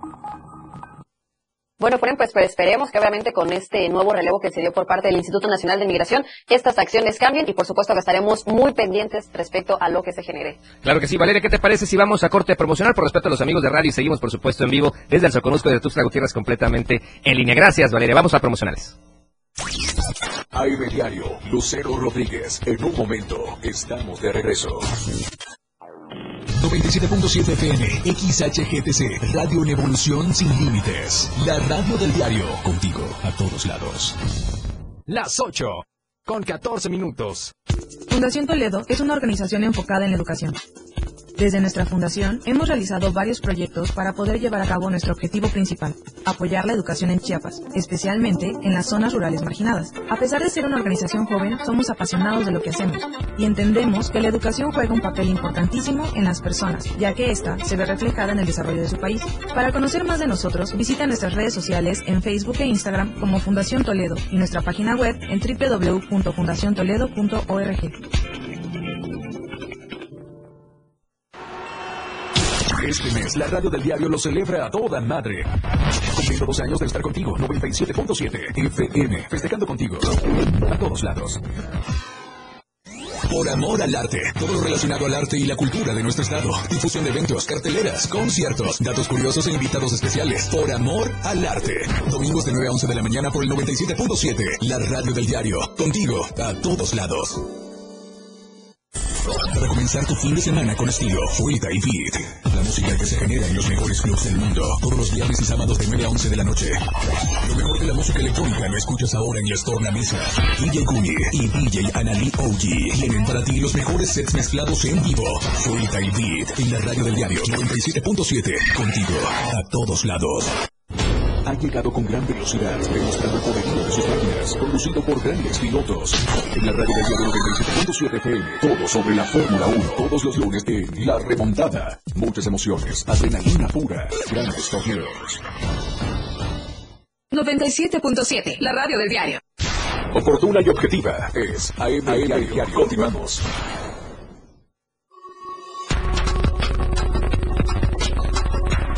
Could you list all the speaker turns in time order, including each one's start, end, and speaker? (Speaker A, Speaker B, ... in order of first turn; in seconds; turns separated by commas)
Speaker A: 1.8-10.6, Speaker B: 10.8-18.9, Speaker C: 20.5-24.9, Speaker C: 26.5-34.1, Speaker D: 35.1-37.5, Speaker E: 38.1-40.6, Speaker E: 41.4-68.0, Speaker C: 72.7-75.5, Speaker C: 76.1-81.4, Speaker C: 83.3-97.5, Speaker C: 99.3-106.8, Speaker C: 107.4-120.5, Speaker C: 121.4-135.4, Speaker F: 137.3-139.4, Speaker C: 140.1-143.4